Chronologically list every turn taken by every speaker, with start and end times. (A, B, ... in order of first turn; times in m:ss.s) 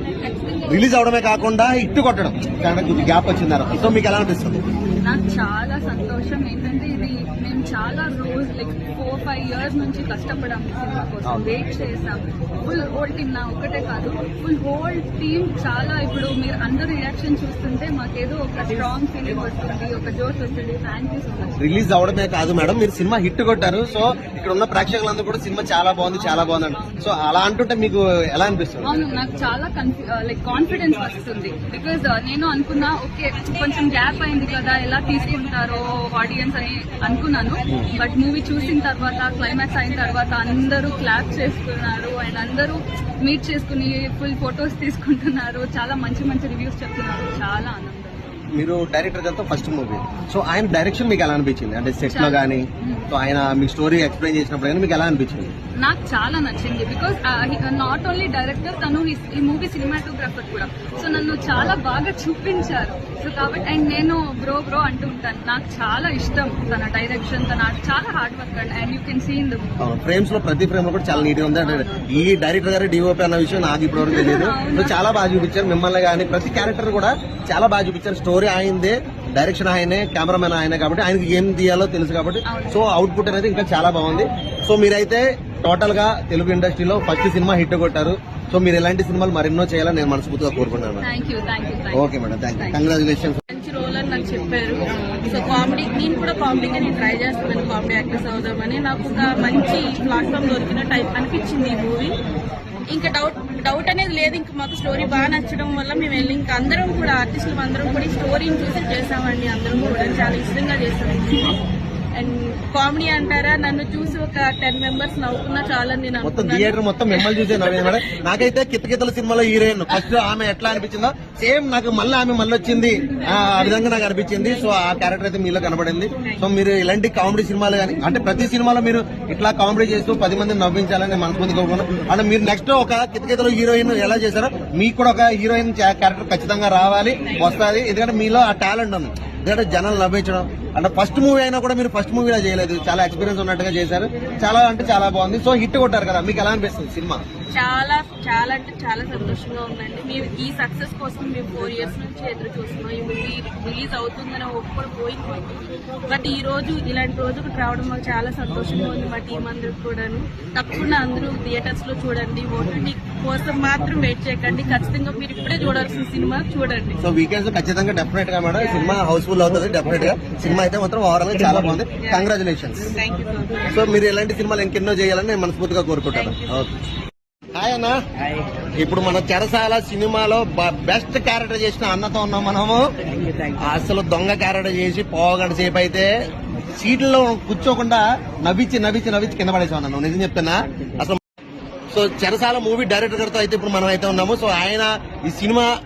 0:00.2-0:00.8 A
0:00.7-0:04.7 B
0:05.0-0:21.6 A
0:11.2-0:11.5 B
0:21.6-0:28.9 B
0:26.1-0:27.1 A
0:28.8-0:48.5 A
0:48.5-0:55.5 B
0:52.1-0:53.1 A
0:55.8-1:09.7 A
1:01.0-1:01.8 B
1:09.8-1:31.1 B
1:11.1-1:12.1 A
1:14.0-1:15.0 A
1:22.5-1:22.8 A
1:31.0-1:32.8 A
1:31.9-1:33.4 B
1:33.5-1:42.2 C
1:42.9-1:58.0 C
1:56.2-2:27.2 B
2:27.5-2:47.0 C
2:47.0-2:52.9 B
2:48.6-2:48.9 C
2:52.0-2:52.3 C
2:52.9-2:53.8 C
2:53.7-2:56.7 B
2:56.1-2:56.6 C
2:57.6-2:58.0 B
2:58.8-3:02.9 B
3:03.5-3:06.1 B
3:06.8-3:11.2 B
3:11.9-3:15.7 B